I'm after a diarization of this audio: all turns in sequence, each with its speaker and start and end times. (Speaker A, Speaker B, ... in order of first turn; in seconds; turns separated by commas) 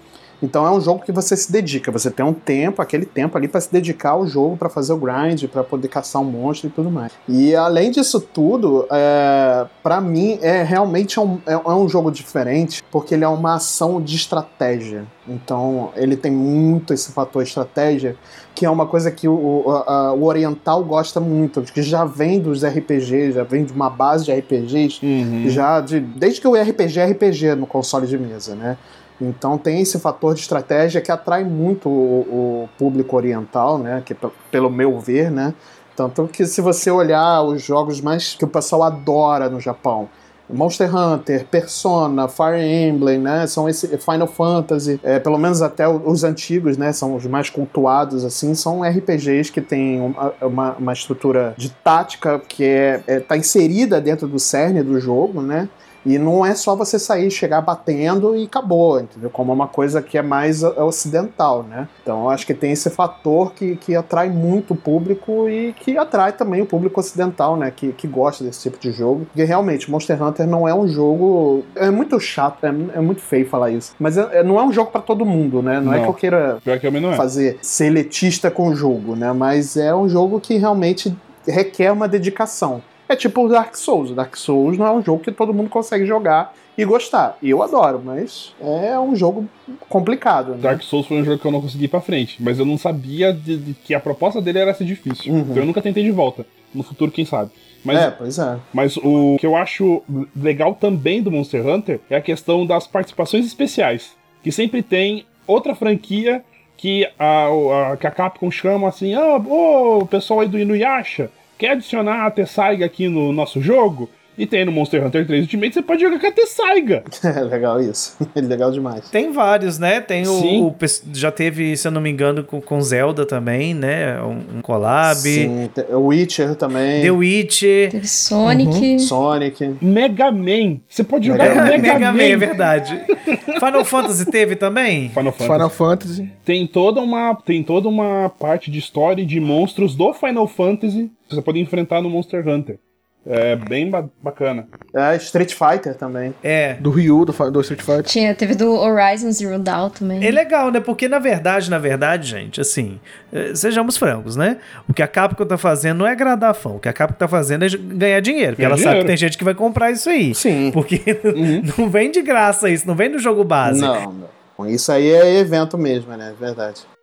Speaker A: 0.4-76.6, Speaker B: 25.0-25.7, Speaker B: 75.8-77.3, Speaker A: 77.1-90.8, Speaker B: 90.6-98.1, Speaker A: 95.3-95.7, Speaker A: 97.9-98.6, Speaker B: 98.7-117.0, Speaker A: 117.1-119.1, Speaker C: 119.1-125.5, Speaker B: 120.2-120.7, Speaker A: 125.1-127.2, Speaker C: 127.0-128.0, Speaker D: 127.9-129.1, Speaker E: 128.4-128.9, Speaker A: 129.0-129.8, Speaker B: 129.8-134.1, Speaker A: 131.2-132.1, Speaker C: 131.3-135.2, Speaker B: 135.1-135.7, Speaker E: 135.4-136.3, Speaker B: 136.5-144.7, Speaker A: 144.9-146.4, Speaker C: 146.4-146.8, Speaker E: 146.8-148.1, Speaker D: 148.0-150.4, Speaker C: 150.2-164.0, Speaker B: 158.6-159.1, Speaker A: 160.3-160.8, Speaker B: 161.3-161.7, Speaker A: 163.7-166.8